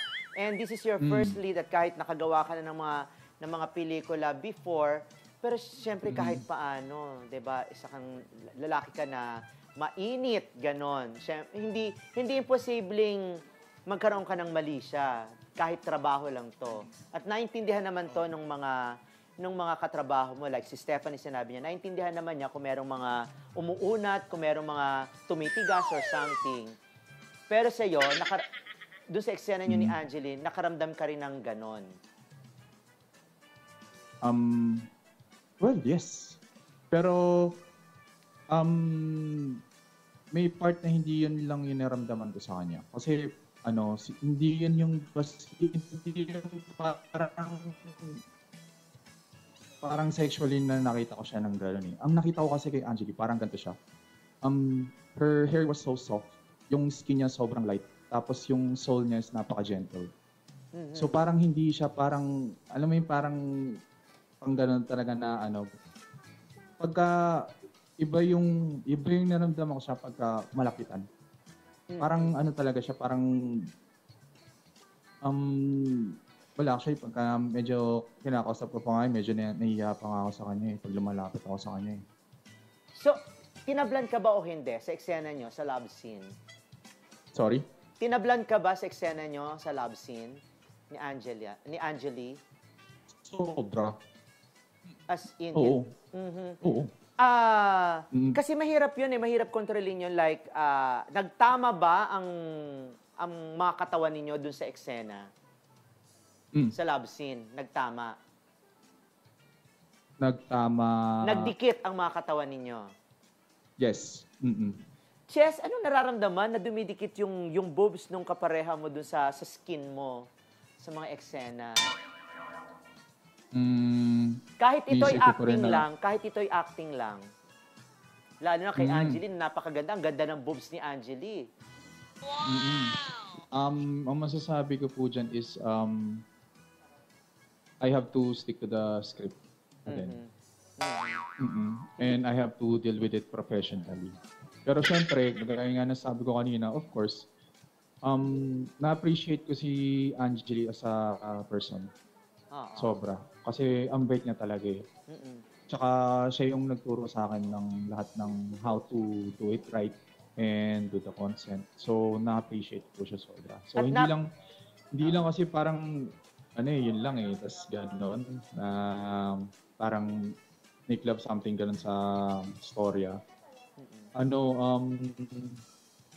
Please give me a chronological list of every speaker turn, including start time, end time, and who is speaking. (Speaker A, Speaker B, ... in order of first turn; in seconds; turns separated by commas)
Speaker A: 0.4-9.3, Speaker B: 1.0-1.4, Speaker B: 6.1-6.4, Speaker A: 9.8-13.3, Speaker A: 13.9-18.8, Speaker A: 19.4-26.7, Speaker A: 27.5-28.4, Speaker A: 29.1-31.9, Speaker B: 29.7-30.0, Speaker B: 34.2-34.9, Speaker B: 35.6-36.4, Speaker B: 36.9-37.5, Speaker B: 38.5-39.6, Speaker B: 40.3-48.2, Speaker B: 49.8-53.8, Speaker B: 54.5-60.1, Speaker A: 60.8-61.2, Speaker B: 61.0-63.4, Speaker B: 64.4-65.6, Speaker B: 66.8-67.1, Speaker B: 68.0-71.0, Speaker A: 71.9-72.3, Speaker B: 72.0-73.3, Speaker B: 75.2-82.0, Speaker A: 83.0-86.3, Speaker B: 87.3-87.6, Speaker A: 88.0-90.4, Speaker A: 90.9-92.4, Speaker B: 93.2-93.9, Speaker A: 95.1-96.6, Speaker B: 95.5-95.9, Speaker B: 96.6-96.9, Speaker A: 97.2-105.3, Speaker B: 98.1-98.4, Speaker A: 106.8-108.1, Speaker B: 110.2-111.5, Speaker A: 111.2-112.9, Speaker B: 113.8-114.8, Speaker A: 115.3-120.2, Speaker A: 120.8-121.8, Speaker B: 123.5-124.3, Speaker A: 124.6-127.2, Speaker B: 124.9-125.9, Speaker A: 128.4-131.5, Speaker B: 128.8-129.2, Speaker B: 132.5-133.0, Speaker B: 133.6-136.2, Speaker B: 137.8-140.2, Speaker A: 139.9-141.2, Speaker B: 141.4-144.1, Speaker B: 144.7-147.3, Speaker B: 148.1-151.9, Speaker A: 152.6-153.0, Speaker B: 152.8-154.8, Speaker A: 155.1-155.4, Speaker B: 155.7-164.3, Speaker A: 163.8-164.1, Speaker B: 164.9-165.8, Speaker A: 165.0-165.3, Speaker B: 166.6-170.1, Speaker B: 170.9-173.2, Speaker A: 173.8-174.1, Speaker B: 174.2-175.6